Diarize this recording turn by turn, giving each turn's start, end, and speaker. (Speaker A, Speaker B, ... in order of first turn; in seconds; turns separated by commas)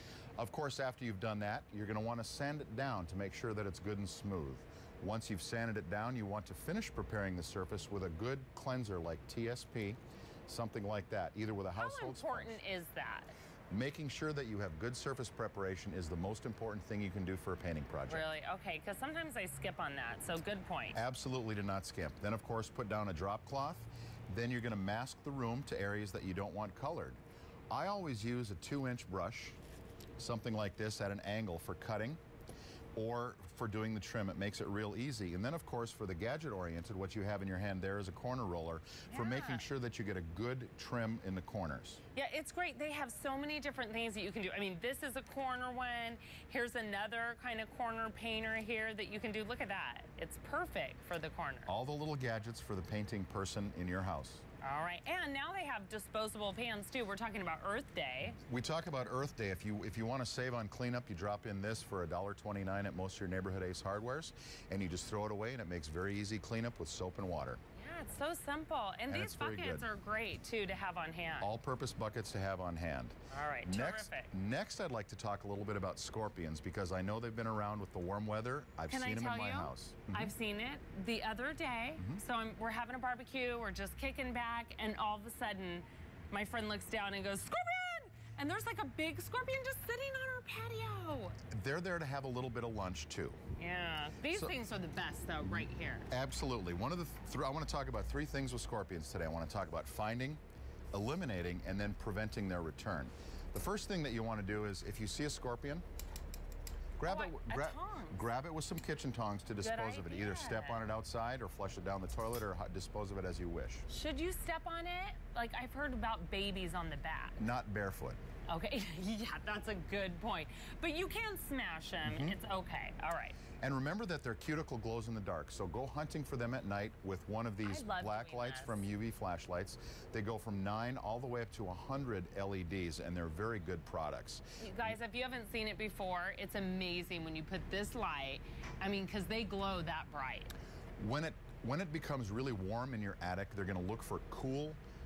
Speaker A: 0.4-12.6, Speaker B: 11.8-13.3, Speaker A: 13.7-18.3, Speaker B: 18.1-21.0, Speaker A: 20.9-27.2, Speaker A: 27.7-29.6, Speaker A: 30.2-32.2, Speaker A: 33.0-42.0, Speaker B: 39.1-39.6, Speaker B: 42.1-51.7, Speaker A: 51.7-54.4, Speaker B: 54.6-58.4, Speaker A: 58.5-67.6, Speaker B: 67.8-71.5, Speaker A: 69.1-69.9, Speaker A: 71.4-80.3, Speaker B: 73.3-74.3, Speaker B: 78.9-91.3, Speaker A: 91.5-93.4, Speaker B: 93.6-96.1, Speaker A: 94.3-94.5, Speaker A: 96.1-100.4, Speaker A: 100.9-105.8, Speaker A: 107.0-113.9, Speaker B: 107.1-108.2, Speaker B: 109.6-110.8, Speaker B: 113.9-117.4, Speaker A: 117.4-118.2, Speaker B: 118.5-123.4, Speaker A: 122.0-122.4, Speaker A: 123.6-134.9, Speaker B: 127.6-128.9, Speaker B: 134.6-140.5, Speaker A: 141.0-144.8